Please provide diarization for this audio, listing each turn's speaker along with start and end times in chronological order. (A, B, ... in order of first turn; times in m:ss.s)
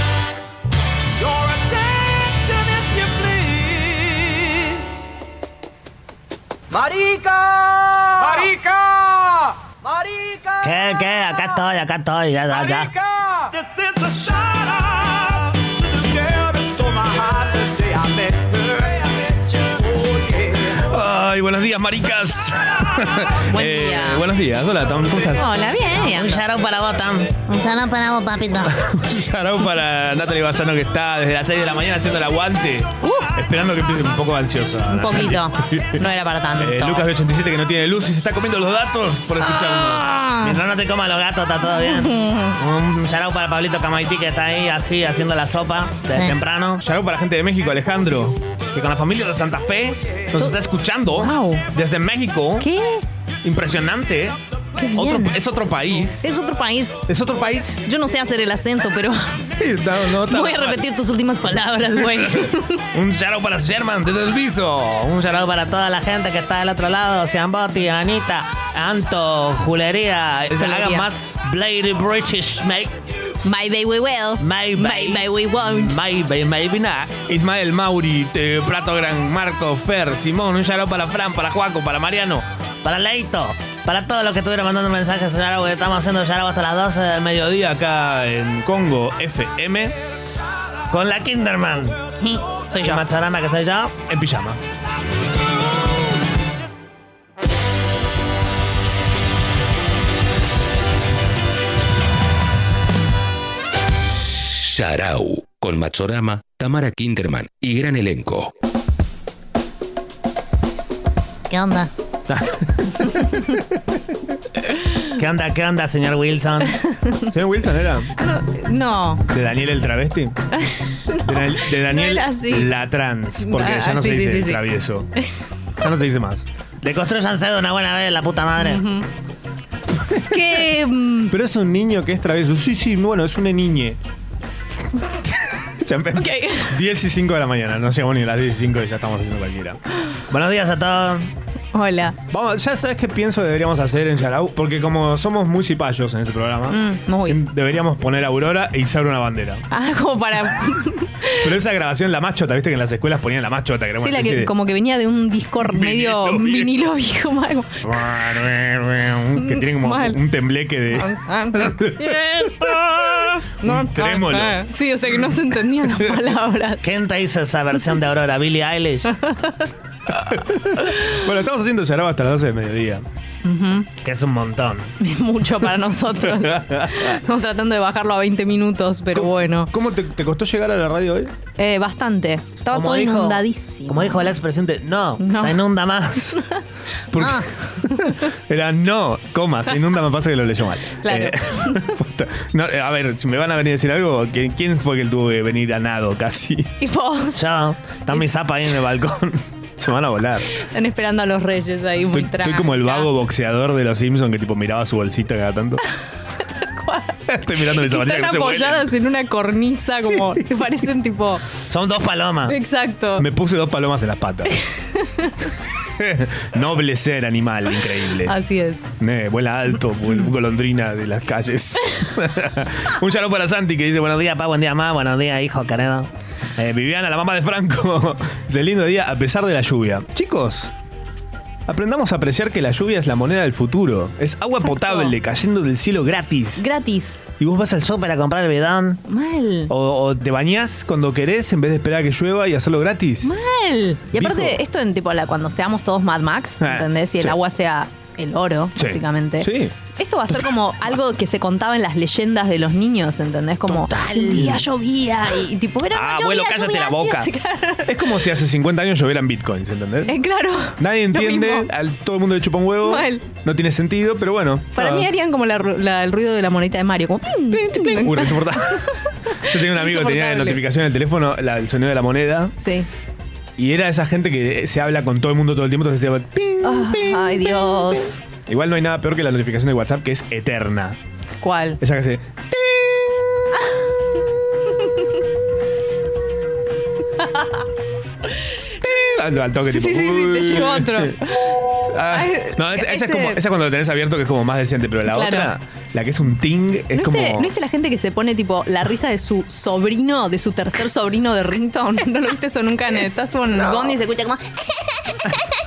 0:01.2-0:04.9 A
0:06.7-0:10.9 A
0:10.6-0:12.9 B
0:12.6-0:20.7 A
0:20.7-0:25.5 C
0:23.5-0:24.2 D
0:25.4-0:26.4 D
0:26.0-0:27.3 B
0:27.4-0:28.7 E
0:28.7-0:36.0 C
0:33.0-0:33.3 D
0:34.9-0:37.1 D
0:36.6-0:40.2 C
0:39.4-0:40.6 D
0:40.4-0:46.8 B
0:41.8-0:42.6 D
0:46.1-0:46.4 E
0:46.8-0:52.7 C
0:51.2-0:51.7 D
0:52.6-0:53.1 D
0:53.4-0:54.4 C
0:54.8-0:55.4 D
0:55.0-0:56.3 C
0:56.2-0:57.0 D
0:57.1-0:57.8 C
0:57.8-0:59.5 D
0:59.6-1:00.8 C
1:00.3-1:02.8 D
1:02.9-1:05.2 C
1:05.1-1:13.0 B
1:10.6-1:11.1 D
1:13.4-1:16.0 D
1:14.4-1:17.1 B
1:17.0-1:22.4 C
1:22.8-1:27.6 B
1:27.5-1:30.0 C
1:30.9-1:32.0 B
1:32.2-1:33.0 D
1:32.7-1:34.0 B
1:34.0-1:34.6 C
1:44.3-1:48.5 F
1:51.5-1:51.9 E
1:52.3-1:53.6 C
1:55.2-1:56.8 B
1:57.3-1:58.1 C
1:58.2-1:59.2 D
1:59.3-2:00.4 C
2:00.5-2:02.7 D
2:01.3-2:05.1 C
2:03.4-2:04.6 D
2:05.8-2:06.4 C
2:06.8-2:08.9 B
2:08.6-2:09.1 D
2:10.0-2:10.4 C
2:10.2-2:11.3 D
2:11.3-2:14.0 C
2:15.2-2:19.8 C
2:16.2-2:16.8 D
2:20.3-2:21.2 B
2:21.7-2:22.2 D
2:22.3-2:29.6 C
2:26.7-2:27.4 D
2:29.7-2:31.5 D
2:31.4-2:34.5 C
2:34.0-2:37.8 D
2:35.6-2:36.7 C
2:37.8-2:44.6 C
2:39.4-2:40.2 D
2:41.0-2:46.8 D
2:46.8-2:49.1 B
2:49.2-2:49.6 D
2:50.1-2:53.0 C
2:50.8-2:51.1 D
2:53.4-2:53.9 D
2:54.0-2:54.9 B
2:55.0-2:59.7 D
2:56.3-2:57.1 C
2:59.2-3:01.3 C
3:01.6-3:04.3 D
3:02.7-3:06.4 B
3:05.2-3:05.6 D
3:07.1-3:16.7 C
3:07.2-3:07.4 D
3:11.0-3:11.9 D
3:16.8-3:17.5 D
3:17.4-3:19.2 B
3:19.0-3:19.3 C
3:19.8-3:20.5 C
3:20.6-3:23.1 D
3:22.1-3:25.8 C
3:26.4-3:31.4 D
3:27.3-3:28.9 C
3:31.7-3:32.6 B
3:32.5-3:33.2 D
3:33.2-3:34.6 C
3:34.9-3:35.4 D
3:36.0-3:38.3 C
3:38.2-3:38.8 D
3:39.0-3:44.3 C
3:44.2-3:46.1 B
3:46.6-3:50.7 C
3:51.7-3:56.7 C
3:54.6-3:55.1 D
3:56.6-3:57.2 D
3:57.4-3:59.0 B
3:59.1-3:59.7 D
3:59.7-4:03.3 C
4:03.2-4:17.9 D
4:04.2-4:04.6 C
4:06.6-4:07.4 C
4:08.8-4:09.7 C
4:13.7-4:14.7 B
4:16.0-4:17.3 B
4:16.0-4:17.1 C
4:17.9-4:20.1 C
4:20.1-4:21.7 D
4:20.8-4:25.1 C
4:22.8-4:23.2 D
4:24.8-4:28.8 D
4:27.5-4:28.8 C
4:29.4-4:32.5 C
4:29.7-4:30.6 D
4:32.6-4:32.9 D
4:33.6-4:41.0 C
4:36.6-4:38.2 D
4:41.4-4:41.8 D
4:41.8-4:43.1 C
4:48.8-4:51.1 C
4:49.7-4:51.6 D
4:51.9-4:57.5 C
4:52.1-4:53.4 D
4:55.1-4:55.5 D
4:56.9-5:05.3 D